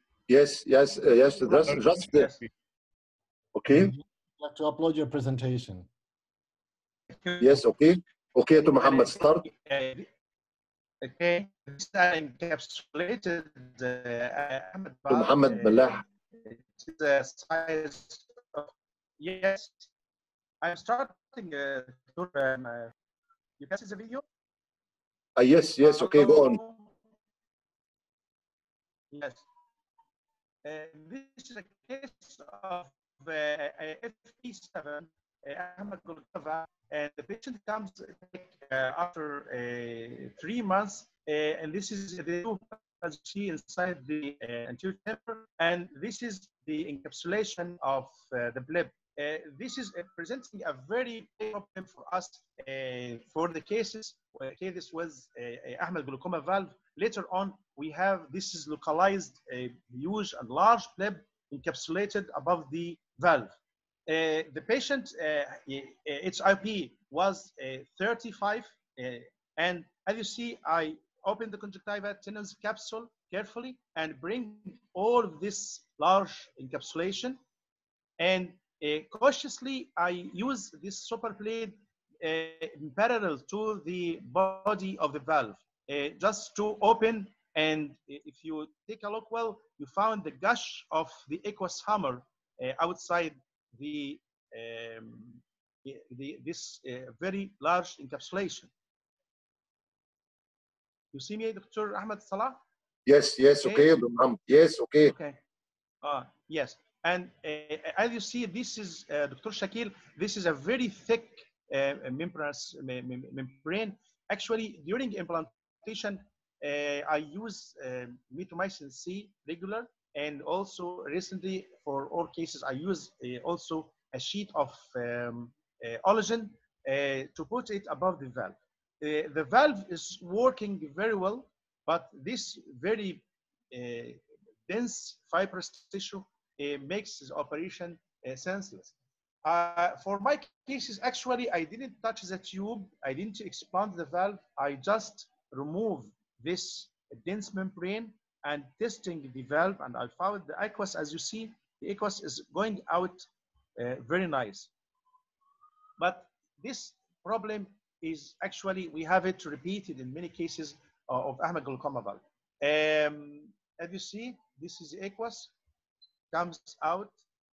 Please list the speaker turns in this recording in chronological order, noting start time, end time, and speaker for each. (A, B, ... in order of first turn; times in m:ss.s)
0:00.3-0:02.3 A
0:01.6-0:02.3 B
0:03.5-0:03.9 A
0:03.7-0:05.9 C
0:07.1-0:07.6 B
0:07.4-0:09.4 A
0:08.7-0:10.1 B
0:11.0-0:19.8 B
0:15.1-0:16.0 A
0:20.6-0:22.9 B
0:23.6-0:24.2 B
0:25.4-0:26.6 A
0:25.8-0:26.9 B
0:29.1-0:29.4 B
0:30.6-1:03.5 B
1:04.1-1:17.4 B
1:18.2-1:38.7 B
1:41.1-1:42.6 B
1:43.0-1:45.1 A
1:45.0-1:45.4 B
1:46.0-2:18.9 B
2:19.4-2:33.2 B
2:33.8-2:34.7 B
2:36.0-2:45.5 B
2:46.3-2:47.1 B